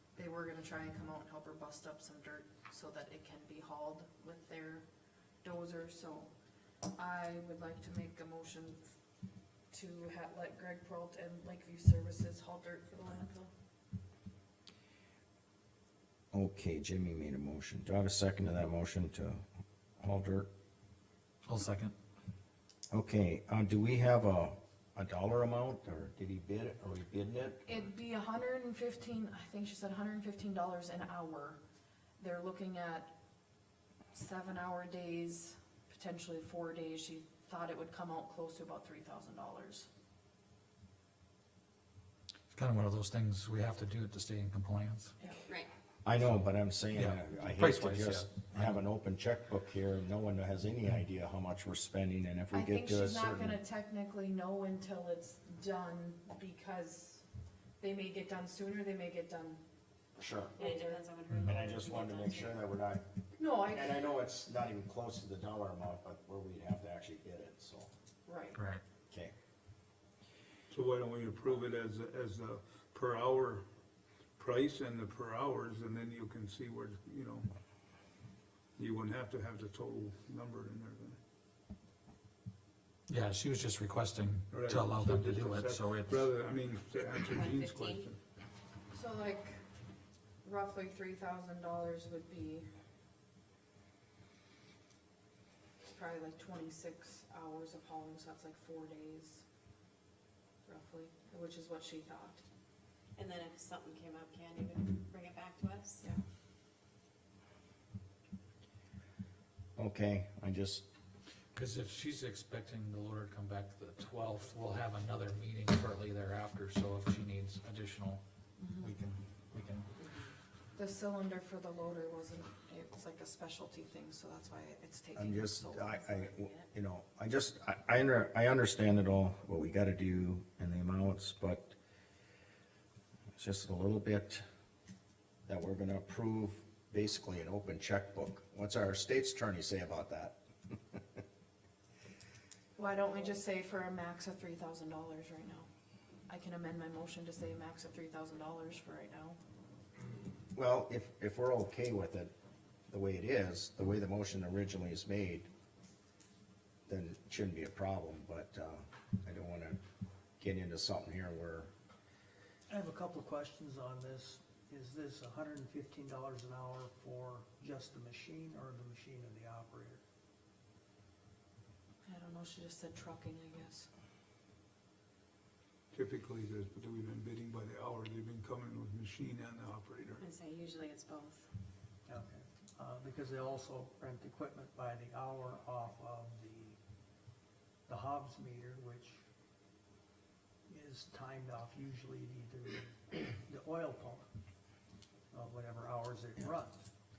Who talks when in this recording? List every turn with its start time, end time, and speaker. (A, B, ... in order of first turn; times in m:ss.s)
0:00.2-0:04.9 A
0:05.4-0:06.3 A
0:06.9-0:09.0 A
0:09.7-0:13.5 A
0:16.3-0:19.4 B
0:20.0-0:20.5 B
0:21.5-0:21.9 C
0:22.9-0:27.6 B
0:27.6-0:31.6 A
0:32.2-0:33.1 A
0:34.1-0:39.9 A
0:42.5-0:45.1 C
0:46.0-0:53.6 B
0:46.2-0:48.8 C
0:52.5-0:57.2 A
0:57.8-0:59.6 A
1:00.2-1:00.6 B
1:00.6-1:01.0 A
1:00.6-1:02.6 D
1:01.4-1:03.0 B
1:03.4-1:04.1 A
1:03.6-1:07.9 B
1:08.3-1:08.6 A
1:08.6-1:08.8 C
1:10.7-1:13.7 E
1:14.4-1:17.5 E
1:18.8-1:21.2 E
1:23.1-1:26.3 C
1:24.5-1:28.2 E
1:27.2-1:28.1 D
1:28.9-1:29.6 A
1:30.4-1:32.7 A
1:35.8-1:39.4 A
1:40.7-1:42.4 A
1:43.2-1:46.0 D
1:49.8-1:50.9 B
1:51.6-1:58.2 C
1:58.6-1:58.9 A
1:58.8-1:59.9 C
2:00.8-2:06.3 A
2:05.2-2:11.8 B
2:13.4-2:14.4 B
2:15.5-2:20.4 B
2:22.8-2:25.7 A
2:26.3-2:29.4 A
2:30.5-2:32.3 B
2:32.9-2:35.5 B
2:36.9-2:39.8 B
2:40.4-2:41.7 B
2:42.7-2:50.0 F
2:52.1-2:53.9 A
2:55.9-3:00.2 E
3:00.2-3:01.5 D
3:02.1-3:06.8 F
3:07.9-3:09.2 F
3:10.7-3:14.3 F
3:15.3-3:16.8 F